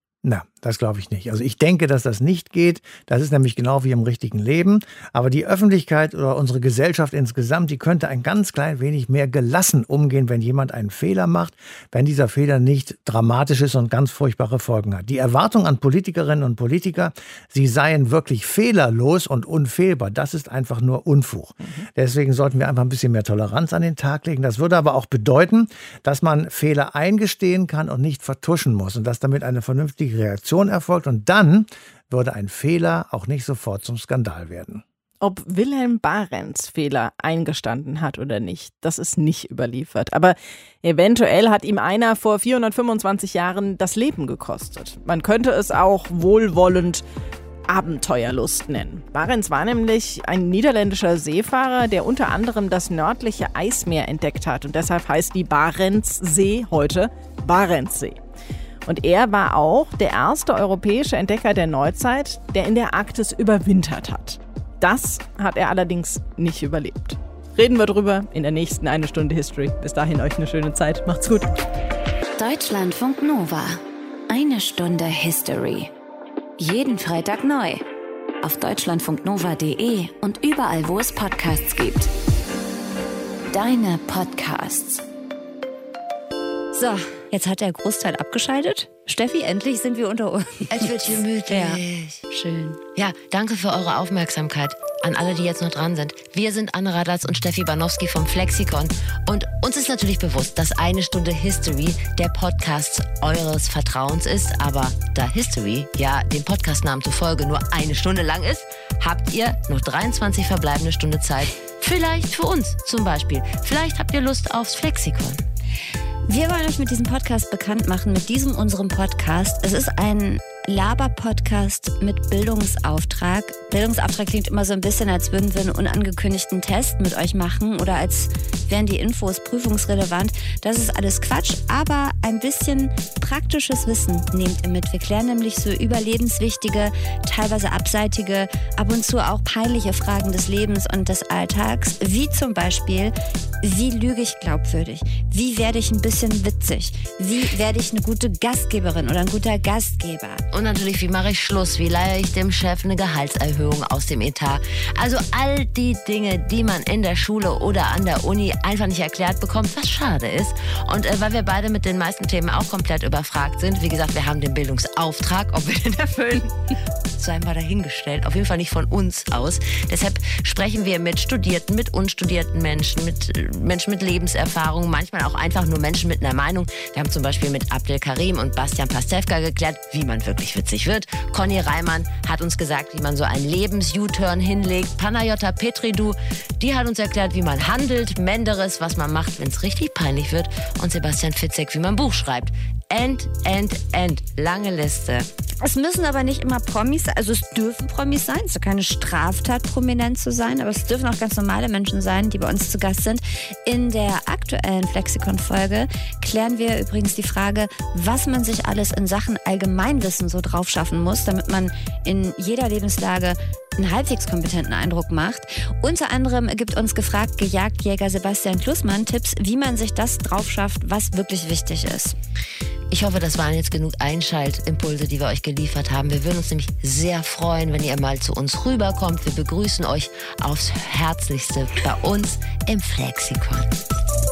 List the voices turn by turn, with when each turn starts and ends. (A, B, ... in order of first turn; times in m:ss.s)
0:00.2-0:34.8 A
0:21.6-0:21.9 B
0:35.2-0:47.0 B
0:47.7-0:58.2 B
0:58.9-1:11.5 B
1:12.4-1:15.9 C
1:16.6-1:17.8 C
1:18.4-1:22.1 C
1:23.5-1:25.0 C
1:26.7-1:32.8 D
1:30.7-1:32.2 E
1:33.0-1:55.4 E
1:56.3-2:30.4 D
2:30.5-2:46.6 E
2:47.2-3:15.3 E
3:15.6-3:42.2 D
3:42.9-3:53.7 E